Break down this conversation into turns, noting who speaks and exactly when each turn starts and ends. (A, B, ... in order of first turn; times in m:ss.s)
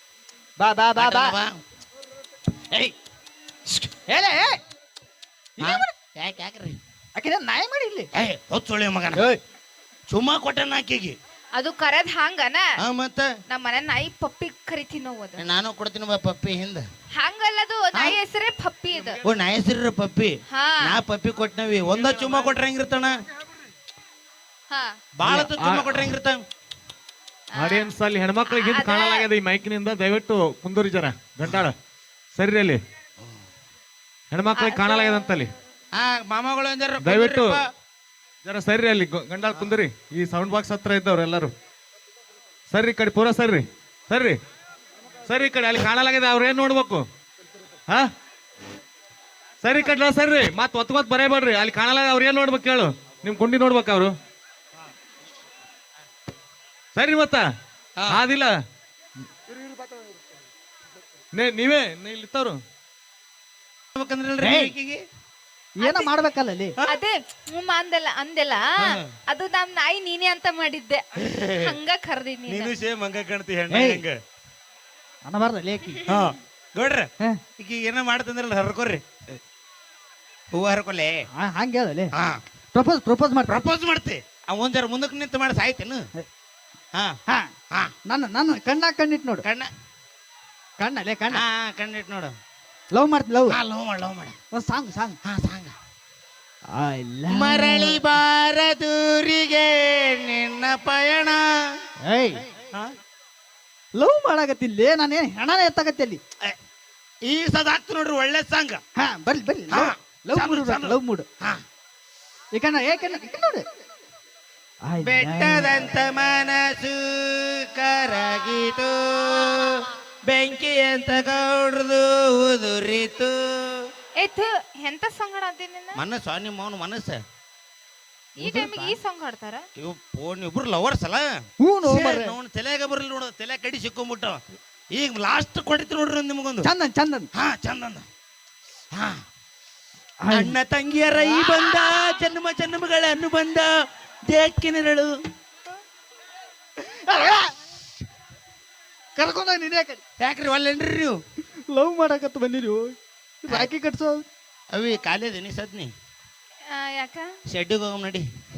0:00.6-0:01.4 A
0:01.0-0:01.6 B
0:03.7-0:04.6 A
0:05.6-0:05.9 A
0:05.6-0:06.8 B
0:07.2-0:08.1 A
0:08.2-0:09.2 B
0:10.1-0:11.2 B
0:11.5-0:12.7 C
0:12.8-0:13.3 B
0:13.5-0:15.4 C
0:15.4-0:16.8 B
0:17.2-0:19.2 C
0:19.2-0:20.3 B
0:20.5-0:20.8 C
0:20.8-0:23.2 B
0:25.2-0:26.4 B
0:25.3-0:26.1 D
0:27.5-0:27.9 C
0:27.6-0:31.8 D
0:28.4-0:29.3 C
0:32.4-0:32.8 D
0:34.3-0:35.5 D
0:34.5-0:35.3 C
0:35.9-0:37.6 B
0:37.0-0:37.6 D
0:38.4-0:41.5 D
0:39.5-0:39.8 B
0:42.7-0:44.4 D
0:45.3-0:47.1 D
0:49.6-0:54.2 D
0:57.0-0:57.5 D
0:58.1-0:58.6 D
1:01.3-1:02.6 D
1:04.0-1:05.0 B
1:04.4-1:04.7 A
1:05.8-1:06.7 A
1:05.8-1:06.1 C
1:06.9-1:08.7 C
1:09.3-1:11.0 C
1:11.2-1:11.7 B
1:11.6-1:12.7 C
1:12.5-1:14.2 B
1:13.7-1:14.0 A
1:15.2-1:16.0 A
1:16.1-1:19.0 B
1:20.5-1:21.2 B
1:21.4-1:22.1 A
1:22.7-1:23.5 A
1:23.5-1:26.0 B
1:28.1-1:29.4 A
1:29.4-1:29.7 B
1:30.8-1:31.4 A
1:31.3-1:32.3 B
1:32.9-1:33.6 A
1:33.5-1:34.4 B
1:34.5-1:35.2 A
1:35.2-1:35.7 B
1:36.7-1:38.1 A
1:37.3-1:41.5 B
1:42.0-1:42.4 A
1:44.0-1:46.2 A
1:47.3-1:48.8 B
1:49.0-1:51.3 A
1:49.7-1:51.6 B
1:52.5-1:53.6 A
1:54.9-1:55.7 A
1:55.0-2:03.8 B
2:04.2-2:05.9 C
2:06.0-2:07.2 B
2:08.4-2:09.6 C
2:08.4-2:09.0 A
2:09.8-2:14.4 B
2:11.6-2:12.3 A
2:14.9-2:16.7 B
2:16.6-2:17.3 A
2:17.3-2:18.1 B
2:18.9-2:19.2 B
2:20.2-2:20.6 A
2:20.3-2:23.7 B
2:24.3-2:25.2 B
2:27.1-2:27.6 A
2:29.2-2:30.0 A
2:30.2-2:31.2 B
2:31.7-2:34.2 A
2:34.7-2:35.9 B
2:36.7-2:37.3 C
2:37.5-2:38.2 B